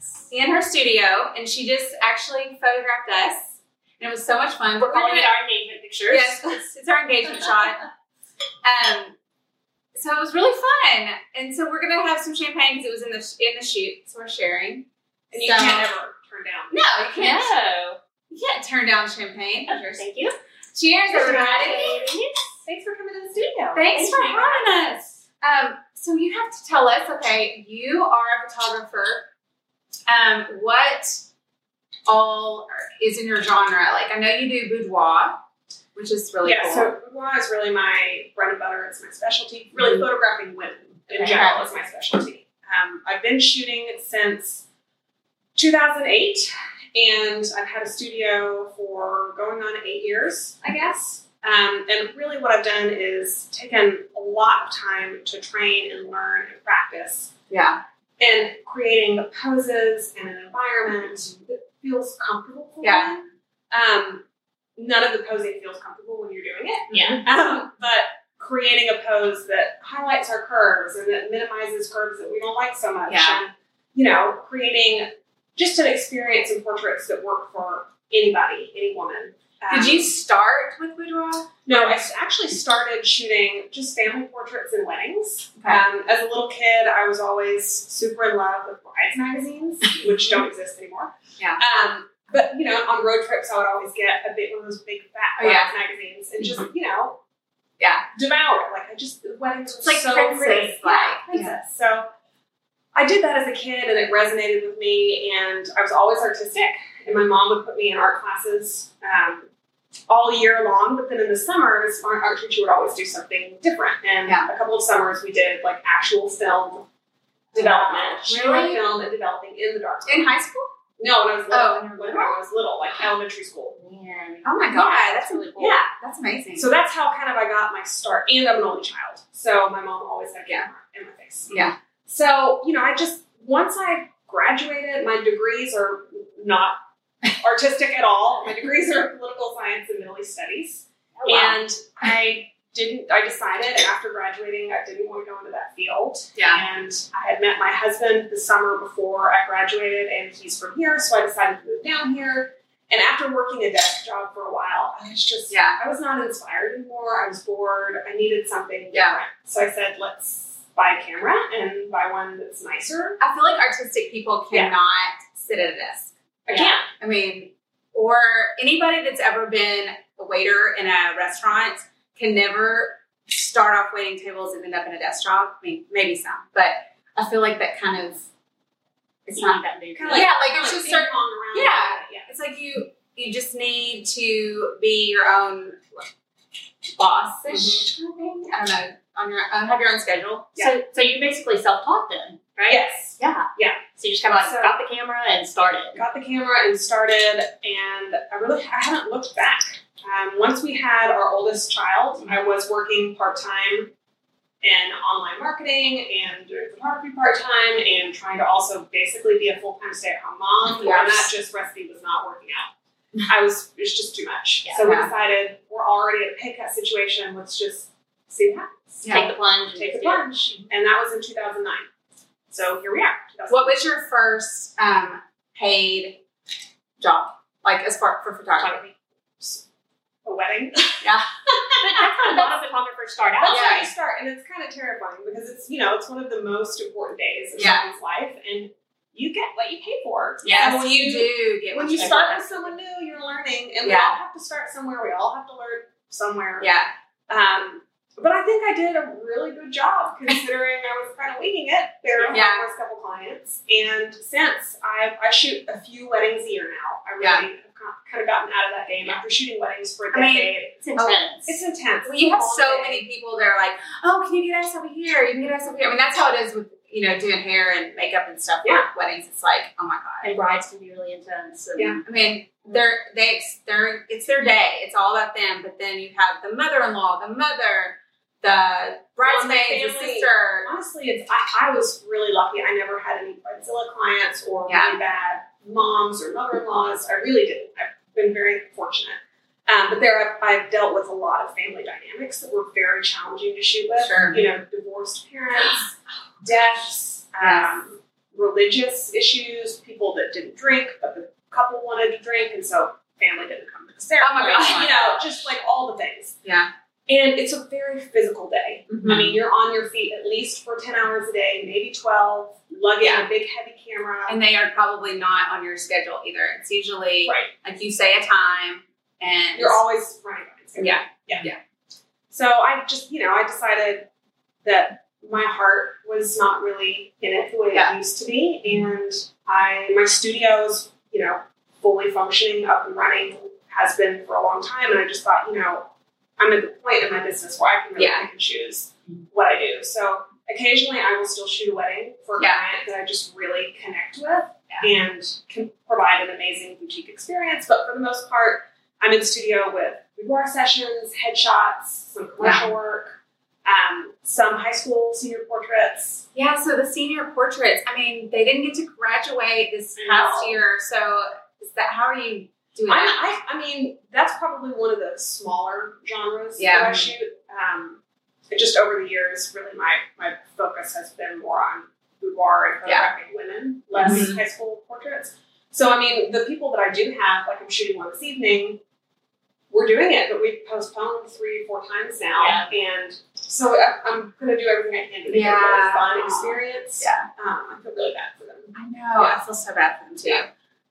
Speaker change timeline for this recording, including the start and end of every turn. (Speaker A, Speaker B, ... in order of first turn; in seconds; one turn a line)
Speaker A: 0.3-5.3
Speaker B: 4.8-6.6
Speaker A: 6.1-7.9
Speaker A: 8.6-9.2
Speaker A: 9.9-14.9
Speaker C: 15.3-16.8
Speaker A: 15.4-15.9
Speaker A: 16.7-17.5
Speaker B: 17.1-18.0
Speaker A: 18.3-20.0
Speaker B: 19.7-20.4
Speaker A: 20.8-22.2
Speaker C: 21.1-22.1
Speaker B: 21.6-22.4
Speaker C: 22.6-24.6
Speaker A: 23.7-29.2
Speaker B: 23.9-24.6
Speaker A: 30.1-31.2
Speaker A: 32.1-35.4
Speaker A: 36.0-36.9
Speaker C: 36.4-44.6
Speaker A: 41.2-41.8
Speaker C: 45.6-57.3
Speaker A: 57.5-57.8
Speaker C: 58.2-64.2
Speaker A: 62.8-63.1
Speaker C: 64.8-80.1
Speaker A: 66.9-67.2
Speaker B: 66.9-67.2
Speaker A: 73.1-73.4
Speaker A: 79.7-82.1
Speaker C: 81.7-97.2
Speaker A: 85.6-85.8
Speaker A: 95.4-95.7
Speaker A: 97.8-98.1
Speaker C: 98.1-102.1
Speaker A: 99.8-101.6
Speaker C: 103.0-109.5
Speaker C: 110.1-116.9
Speaker A: 117.5-118.9
Speaker C: 117.5-120.3
Speaker A: 120.1-120.7
Speaker C: 121.0-123.8
Speaker A: 121.5-122.4
Speaker B: 123.8-125.8
Speaker A: 124.4-126.7
Speaker C: 125.6-125.8
Speaker C: 126.6-131.5
Speaker A: 131.5-131.8
Speaker C: 132.1-136.8
Speaker C: 137.4-163.2
Speaker B: 141.2-141.6
Speaker A: 146.4-146.6
Speaker A: 155.5-155.8
Speaker A: 158.9-159.2
Speaker A: 163.2-178.2
Speaker C: 166.5-166.8
Speaker A: 179.3-186.1
Speaker B: 179.4-180.3
Speaker C: 179.9-182.3
Speaker A: 186.9-190.6
Speaker B: 187.5-187.9
Speaker B: 190.6-196.0
Speaker C: 192.7-194.8
Speaker C: 195.9-203.9
Speaker C: 204.6-212.7
Speaker A: 210.7-211.3
Speaker C: 213.2-221.9
Speaker A: 214.8-215.1
Speaker A: 219.0-219.3
Speaker B: 219.1-220.2
Speaker C: 222.5-223.8
Speaker A: 223.5-226.2
Speaker A: 227.0-228.8
Speaker C: 229.4-229.7
Speaker C: 230.2-231.1
Speaker A: 231.0-231.3
Speaker B: 231.8-233.8
Speaker C: 232.0-232.5
Speaker C: 233.4-246.7
Speaker A: 233.5-233.9
Speaker A: 237.6-237.9
Speaker A: 240.4-242.7
Speaker A: 243.8-244.2
Speaker A: 246.6-246.9
Speaker C: 247.3-260.9
Speaker A: 252.3-252.7
Speaker A: 257.2-257.5
Speaker A: 260.1-261.2
Speaker B: 260.9-261.5
Speaker C: 261.5-263.0
Speaker A: 262.0-270.3
Speaker B: 270.2-272.1
Speaker A: 272.1-280.7
Speaker C: 279.2-306.4
Speaker A: 284.7-285.0
Speaker A: 294.0-294.4
Speaker A: 297.4-297.7
Speaker A: 304.2-305.2
Speaker A: 306.4-306.7
Speaker C: 307.1-314.4
Speaker A: 308.9-309.4
Speaker A: 313.0-313.3
Speaker A: 314.3-319.8
Speaker C: 317.2-317.5
Speaker C: 319.6-321.5
Speaker A: 320.8-321.6
Speaker C: 322.3-324.1
Speaker C: 324.6-356.2
Speaker A: 338.0-338.3
Speaker A: 352.4-352.7
Speaker A: 356.3-363.2
Speaker C: 360.0-360.6
Speaker C: 362.9-378.8
Speaker A: 366.6-367.1
Speaker A: 374.0-374.4
Speaker C: 379.7-389.4
Speaker B: 382.4-382.7
Speaker A: 385.3-387.3
Speaker A: 388.7-390.5